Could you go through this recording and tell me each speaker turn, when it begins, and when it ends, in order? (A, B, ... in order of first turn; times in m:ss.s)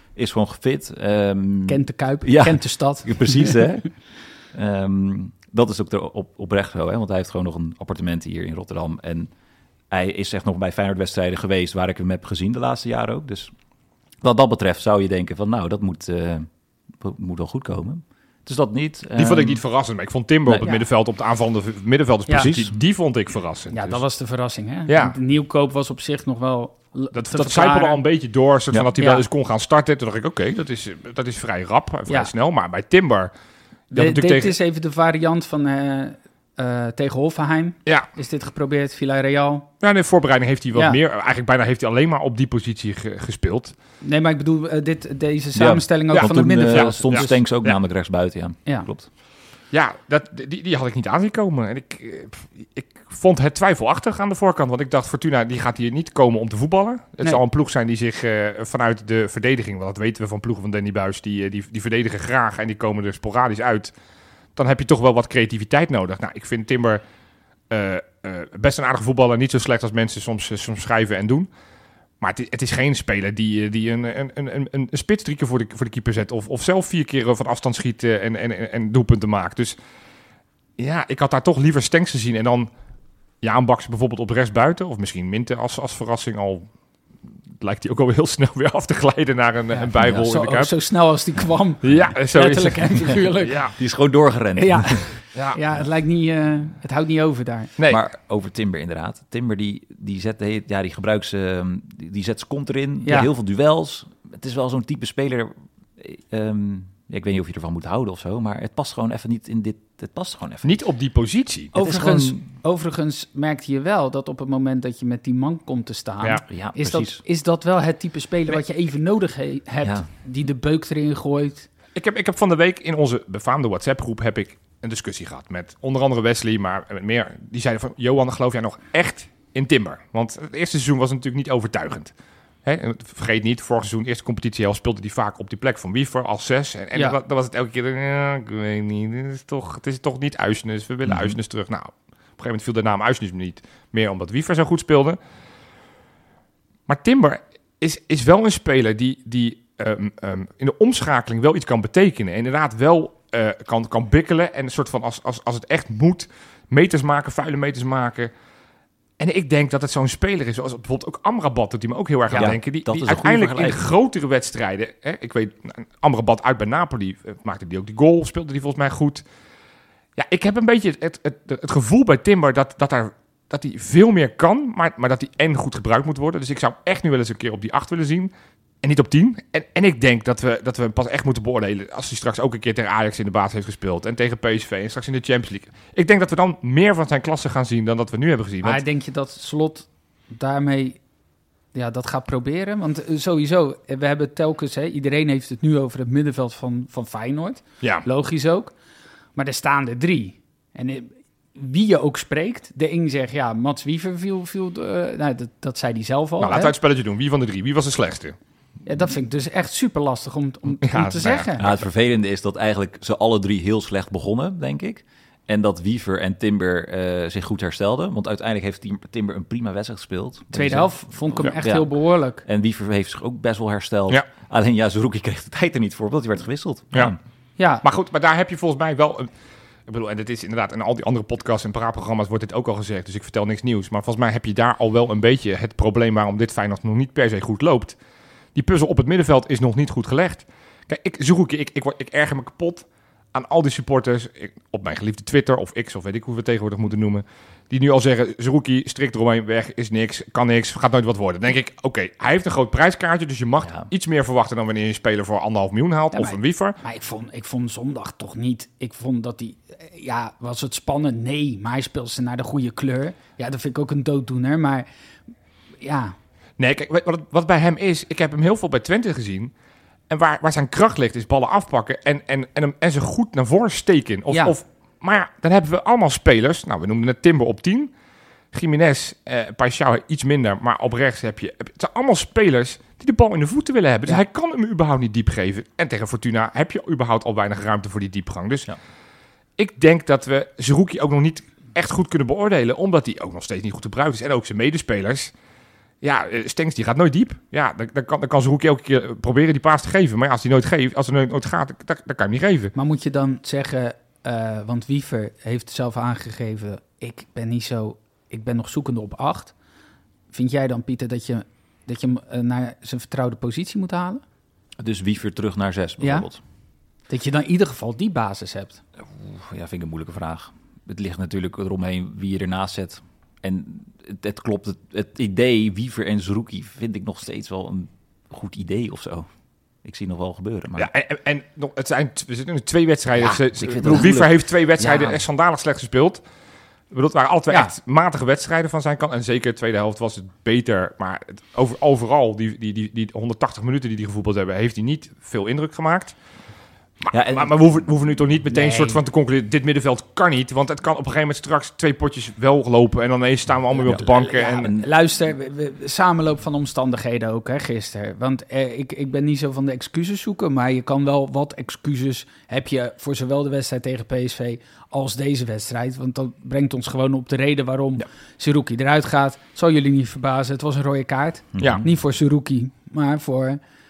0:00.2-0:09.3 A
0:01.7-0:03.9 B
0:09.9-0:13.5 A
0:14.2-0:19.6 A
0:19.2-0:24.0 C
0:22.4-0:22.7 A
0:23.7-0:28.0 B
0:24.9-0:25.2 C
0:27.1-0:33.3 C
0:29.0-0:29.2 B
0:33.9-0:34.6 C
0:33.9-0:39.7 B
0:39.8-0:43.8 C
0:44.0-0:47.4 B
0:45.6-0:49.1 A
0:46.1-0:47.8 C
0:49.7-1:03.9 C
1:04.6-1:07.0 C
1:07.7-1:11.5 C
1:12.2-1:19.8 C
1:20.8-1:22.7 C
1:23.4-1:26.7 C
1:27.6-1:30.7 C
1:30.0-1:30.3 A
1:30.2-1:33.7 B
1:31.8-1:33.7 C
1:33.8-1:35.1 A
1:34.6-1:37.7 B
1:35.3-1:35.6 C
1:37.8-1:38.0 C
1:37.9-1:50.7 A
1:43.0-1:43.3 B
1:50.6-1:52.4 C
1:51.7-2:01.7 B
1:56.5-1:57.2 A
2:02.0-2:12.1 C
2:12.6-2:25.2 C
2:21.1-2:21.4 A
2:26.9-2:38.3 C
2:39.2-2:49.2 C
2:42.3-2:43.8 A
2:50.2-3:08.8 C
3:08.6-3:11.0 B
3:11.7-3:18.7 B
3:19.4-3:26.7 B
3:26.4-3:28.4 C
3:28.8-3:31.7 B
3:30.8-3:31.8 C
3:31.6-3:47.2 A
3:40.5-3:42.4 B
3:47.6-3:47.8 B
3:47.8-3:49.3 C
3:49.9-3:58.0 C
3:58.6-4:16.8 C
4:13.6-4:13.9 A
4:16.1-4:24.9 B
4:25.8-4:26.2 B
4:26.6-4:29.5 C
4:30.1-4:37.9 C
4:38.5-4:48.7 C
4:49.6-4:55.3 C
4:56.0-5:02.7 C
5:02.8-5:09.5 B
5:10.3-5:14.2 B
5:14.8-5:16.4 A
5:16.0-5:16.3 B
5:17.1-5:18.8 B
5:19.0-5:29.3 A
5:29.8-5:30.9 A
5:30.8-5:36.2 C
5:33.2-5:35.2 A
5:36.9-5:46.2 C
5:47.0-5:54.7 C
5:47.1-5:47.5 A
5:48.5-5:49.0 B
5:53.8-6:13.6 B
6:11.6-6:11.9 A